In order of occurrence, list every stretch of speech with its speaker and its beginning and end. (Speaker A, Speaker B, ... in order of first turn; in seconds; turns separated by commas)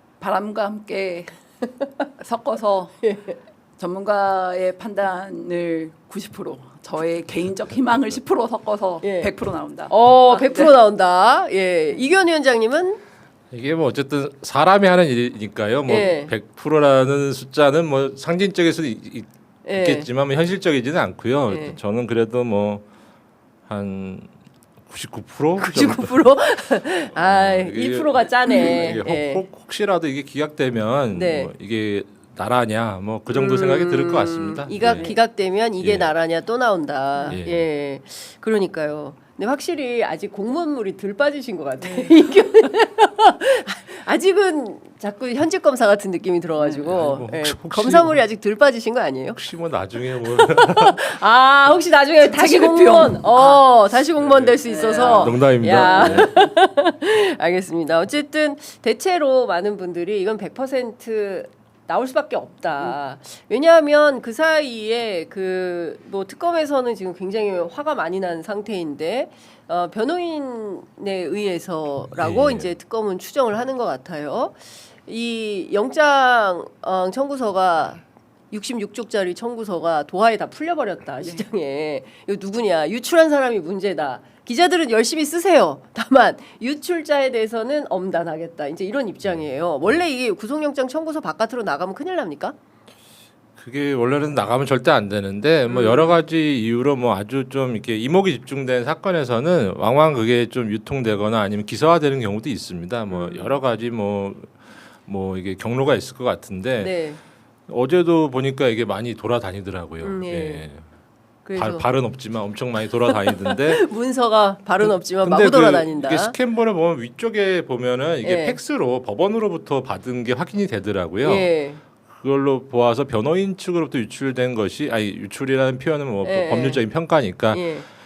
Speaker A: 0.2-1.3, Speaker A: 2.2-3.1, Speaker B: 3.0-3.4, Speaker A: 3.8-10.7, Speaker B: 9.0-9.3, Speaker B: 9.9-13.0, Speaker C: 13.5-22.8, Speaker B: 15.9-16.3, Speaker B: 19.6-20.1, Speaker B: 21.5-21.8, Speaker C: 23.7-24.3, Speaker C: 24.9-26.2, Speaker B: 25.6-29.4, Speaker C: 27.1-35.1, Speaker B: 31.1-31.5, Speaker B: 33.3-49.4, Speaker A: 34.9-35.2, Speaker C: 35.8-36.1, Speaker C: 37.3-37.6, Speaker A: 41.8-42.2, Speaker A: 46.6-46.9, Speaker C: 46.8-48.2, Speaker C: 49.3-51.0, Speaker B: 50.2-92.5, Speaker A: 52.2-53.7, Speaker C: 54.3-56.3, Speaker A: 54.6-56.3, Speaker C: 72.2-72.7, Speaker C: 93.6-107.0, Speaker A: 95.7-96.1, Speaker B: 103.1-103.5, Speaker B: 106.8-107.2, Speaker C: 107.7-110.8, Speaker B: 110.0-110.7, Speaker B: 111.4-111.9, Speaker C: 111.5-113.9, Speaker B: 113.0-116.3, Speaker C: 114.8-121.5, Speaker B: 118.2-118.6, Speaker B: 121.2-121.8, Speaker C: 122.1-127.7, Speaker B: 126.2-126.8, Speaker B: 127.5-127.8